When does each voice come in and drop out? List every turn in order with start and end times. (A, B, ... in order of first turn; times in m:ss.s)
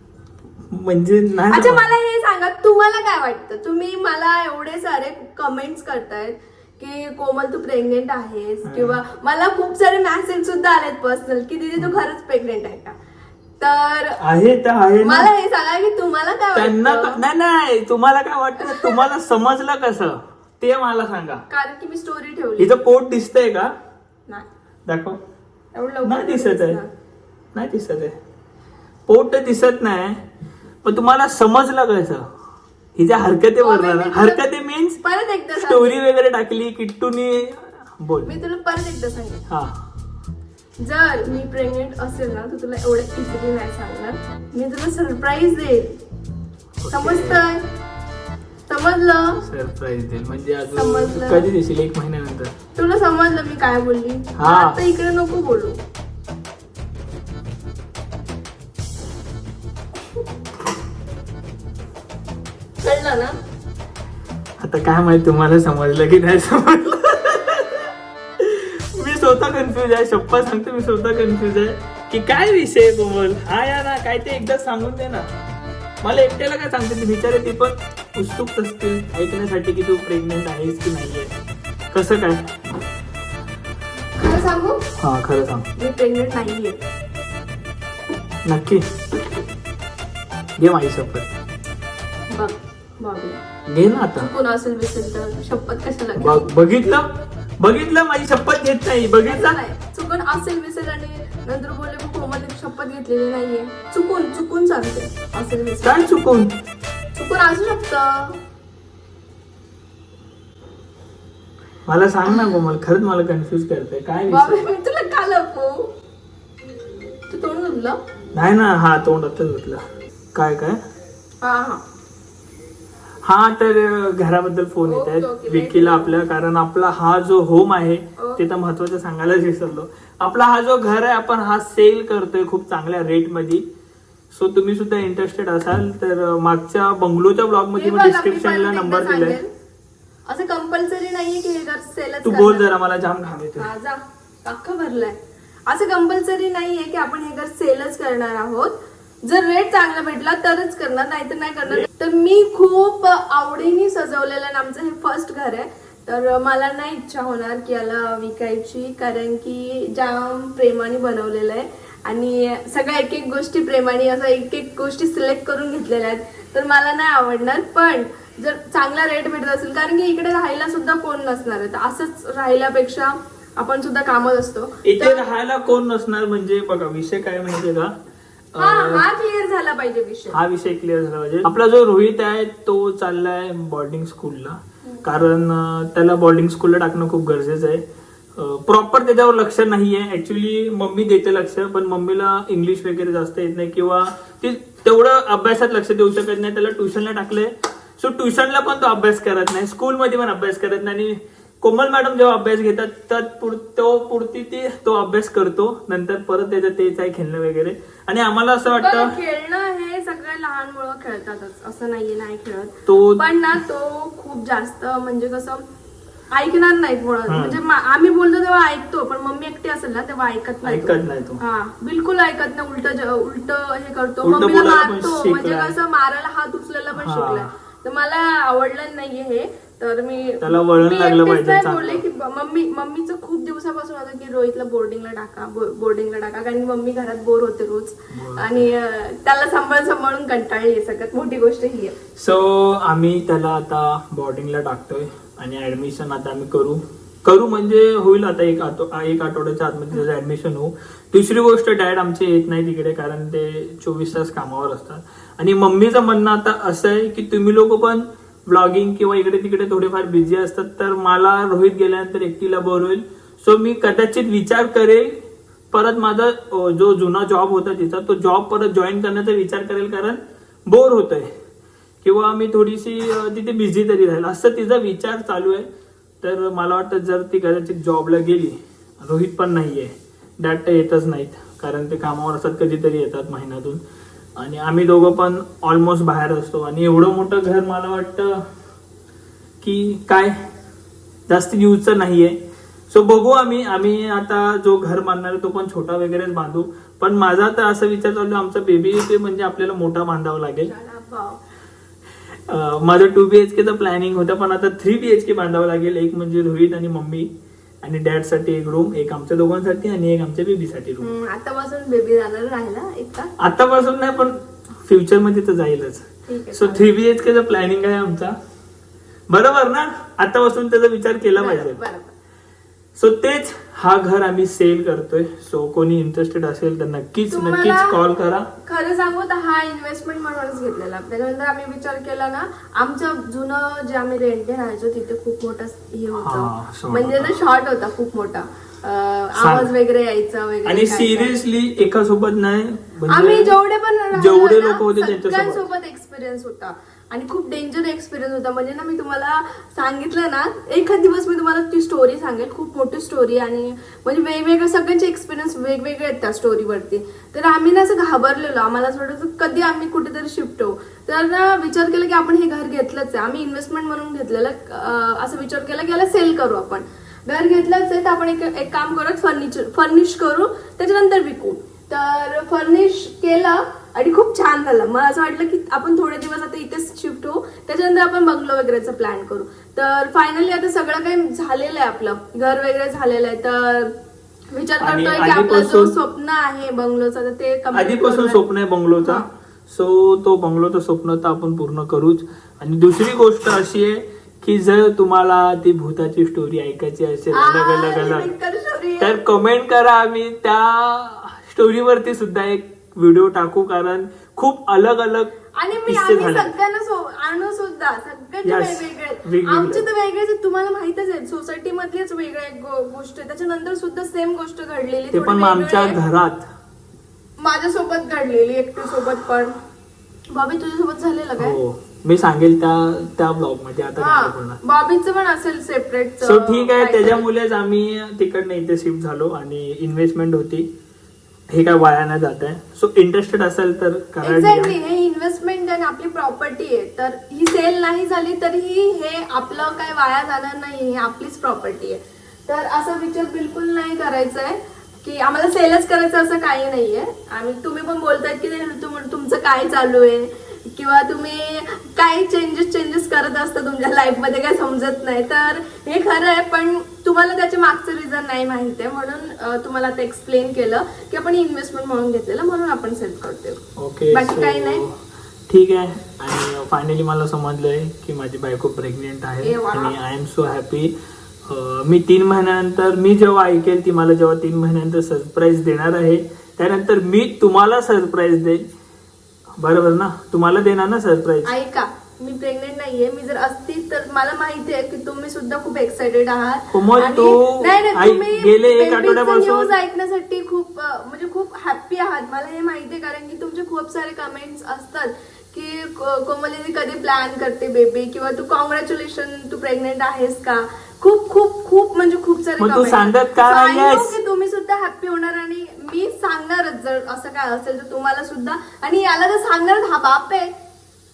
0:00.7-0:01.9 A
0:01.5-0:13.0 B
0:08.6-0:09.0 A
0:13.6-0:14.2 B
0:14.2-0:15.3 A
0:15.0-0:17.2 B
0:16.5-0:21.4 A
0:18.6-0:19.0 B
0:21.5-0:22.8 B
0:22.6-0:23.7 A
0:24.9-0:25.2 A
0:25.7-0:26.9 B
0:26.0-0:26.8 A
0:27.5-0:28.2 A
0:29.1-0:30.2 A
0:30.8-0:32.3 A
0:33.0-0:35.0 A
0:33.6-0:34.4 B
0:35.0-0:36.0 B
0:35.6-0:38.3 A
0:38.2-0:39.4 B
0:39.5-0:39.8 A
0:40.8-0:46.0 B
0:46.8-0:47.4 A
0:46.9-0:47.6 B
0:48.7-0:49.4 B
0:49.4-0:52.5 A
0:50.7-0:51.5 B
0:52.8-0:55.8 B
0:54.4-0:54.8 A
1:02.8-1:03.3 B
1:04.6-1:15.3 A
1:16.0-1:21.3 A
1:21.9-1:22.4 A
1:24.2-1:24.8 B
1:25.0-1:25.7 A
1:25.8-1:26.8 B
1:28.4-1:28.8 A
1:30.6-1:31.3 A
1:32.3-1:33.4 B
1:33.6-1:34.3 A
1:34.2-1:36.5 B
1:36.2-1:39.6 A
1:39.2-1:46.1 B
1:45.8-1:46.5 A
1:47.1-1:48.4 B
1:51.8-1:54.6 A
1:54.3-1:55.9 B
1:57.3-1:58.0 B
1:58.3-1:59.8 A
2:00.3-2:00.8 A
2:01.4-2:01.8 B
2:03.2-2:13.6 A
2:04.8-2:06.2 B
2:08.2-2:08.4 B
2:14.3-2:19.4 A
2:17.7-2:19.5 B
2:20.3-2:22.7 B
2:22.2-2:23.7 A
2:23.6-2:55.2 B
2:54.8-2:57.9 A
2:58.5-2:59.0 A
2:58.6-3:00.4 B
3:00.3-3:07.8 A
3:08.4-3:29.1 A
3:28.8-3:35.6 B
3:32.9-3:33.3 A
3:36.3-4:02.0 B
3:37.3-3:37.6 A
3:40.6-3:41.4 A
3:44.2-3:45.7 A
3:47.0-3:47.5 A
3:50.4-3:52.0 A
3:58.1-3:58.7 A
4:02.2-4:25.2 A
4:25.7-4:31.3 A
4:32.0-4:35.7 A
4:36.2-4:43.8 A
4:44.4-4:48.4 A
4:49.6-4:50.4 A
4:51.3-4:52.4 A
4:52.9-5:00.7 A
5:00.6-5:01.4 B
5:02.5-5:07.3 A
5:07.8-5:11.1 A
5:11.0-5:13.3 B
5:13.4-5:18.4 A
5:16.3-5:16.9 B
5:19.3-5:21.8 A
5:21.4-5:22.1 B
5:23.0-5:28.5 A
5:27.3-5:28.0 B
5:28.6-5:41.4 B
5:36.2-5:37.4 A
5:39.4-5:39.7 A
5:40.6-5:43.6 A
5:43.1-6:23.9 B
5:44.1-5:45.7 A
6:24.5-6:28.4 B
6:24.8-6:25.9 A
6:27.7-6:38.3 A
6:37.3-6:39.2 B
6:39.0-6:45.3 A
6:45.5-6:56.0 B
6:45.8-6:46.5 A
6:48.4-6:49.8 A
6:55.1-6:56.5 A
6:57.4-6:59.6 B
7:00.3-7:01.6 B
7:01.4-7:04.6 A
7:04.0-7:07.2 B
7:06.2-7:10.7 A
7:11.5-7:14.7 A
7:14.2-7:44.8 B
7:43.8-7:44.9 A
7:45.5-7:50.9 A
7:49.4-7:50.0 B
7:51.5-7:58.6 A
7:59.6-8:01.5 A
8:01.4-8:30.5 B
8:06.7-8:09.7 A
8:22.6-8:24.2 A